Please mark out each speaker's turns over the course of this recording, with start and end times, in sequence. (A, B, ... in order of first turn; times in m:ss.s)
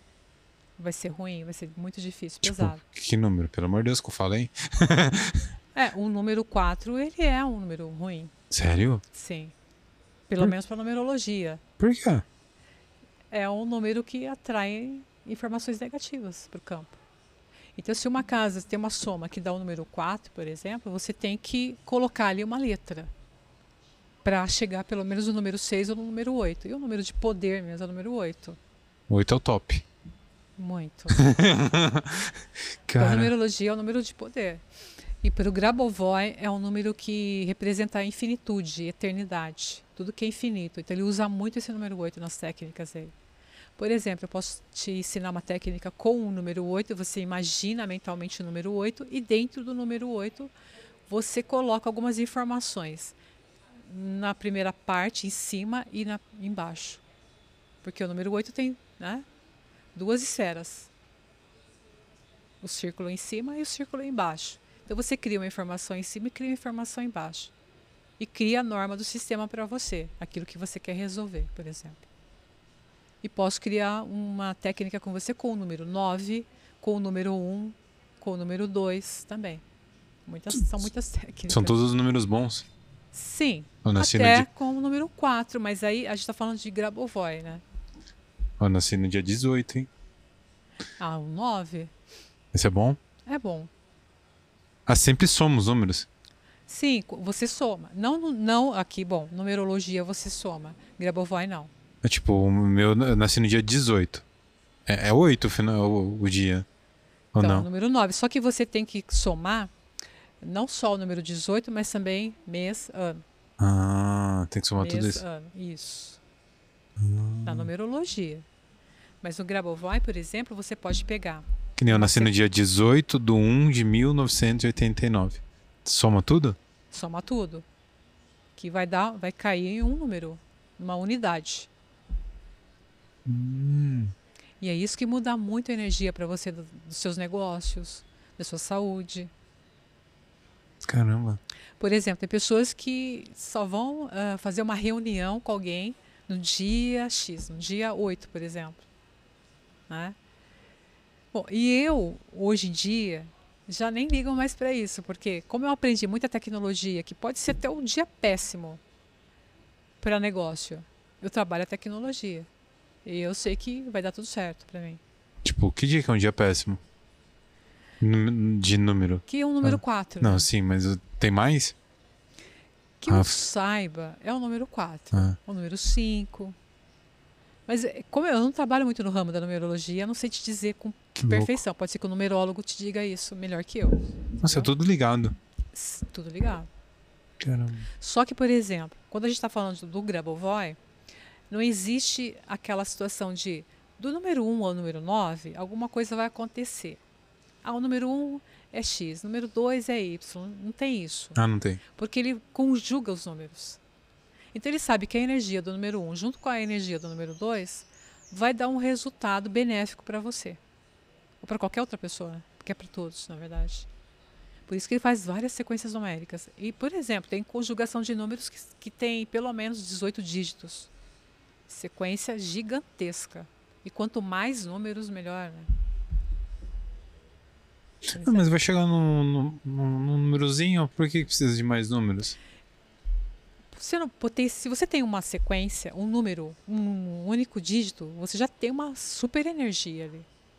0:00.8-0:02.8 A
0:02.4-0:05.5 B
0:05.7-0:08.3 A
0:08.5-0:09.0 B
0:09.1-0:09.5 A
0:10.3-0:11.6 A
0:11.8-0:12.2 B
0:13.3-0:17.0 A
0:17.8-0:23.1 A
0:24.2-0:28.6 A
0:29.1-0:29.8 B
0:30.6-0:31.2 A
0:31.1-0:33.3 B
0:33.0-0:34.6 A
0:35.2-0:43.1 A
0:43.8-0:50.5 A
0:51.1-0:53.1 A
0:53.9-0:57.0 A
0:57.8-0:59.2 A
0:59.9-1:00.9 A
1:02.6-1:07.5 A
1:08.2-1:12.0 A
1:13.2-1:19.6 A
1:20.3-1:21.8 A
1:21.5-1:22.6 B
1:23.1-1:27.6 A
1:23.8-1:24.5 B
1:28.6-1:29.9 B
1:31.0-1:31.9 A
1:32.5-1:33.0 B
1:33.3-1:33.7 A
1:34.9-1:36.1 B
1:36.7-1:41.7 A
1:42.0-1:44.2 B
1:44.9-1:46.6 B
1:47.3-1:47.7 B
1:47.4-1:49.7 A
1:50.4-1:53.2 A
1:53.6-1:55.2 B
1:54.8-1:56.2 A
1:57.0-1:57.7 B
1:57.4-1:58.4 A
1:59.2-2:02.3 A
2:01.8-2:06.6 B
2:06.9-2:07.6 A
2:08.6-2:11.7 A
2:13.2-2:14.1 B
2:14.6-2:19.3 A
2:20.8-2:21.4 B
2:21.8-2:28.8 A
2:29.9-2:30.2 A
2:31.3-2:38.8 A
2:40.0-2:42.5 A
2:43.0-2:45.0 A
2:45.4-2:46.8 B
2:48.0-2:51.7 B
2:49.3-2:50.5 A
2:53.0-2:56.6 A
2:53.1-2:53.3 B
2:57.7-3:04.7 A
3:01.2-3:01.6 B
3:04.4-3:05.3 B
3:05.7-3:06.7 A
3:07.4-3:07.9 B
3:08.0-3:10.8 A
3:11.5-3:17.0 A
3:17.6-3:21.4 A
3:21.4-3:21.8 B
3:22.0-3:23.8 A
3:24.5-3:30.6 A
3:31.4-3:33.9 A
3:34.7-3:40.9 A
3:41.7-3:45.7 A
3:48.1-3:48.5 A
3:48.1-3:52.4 B
3:53.7-4:00.3 A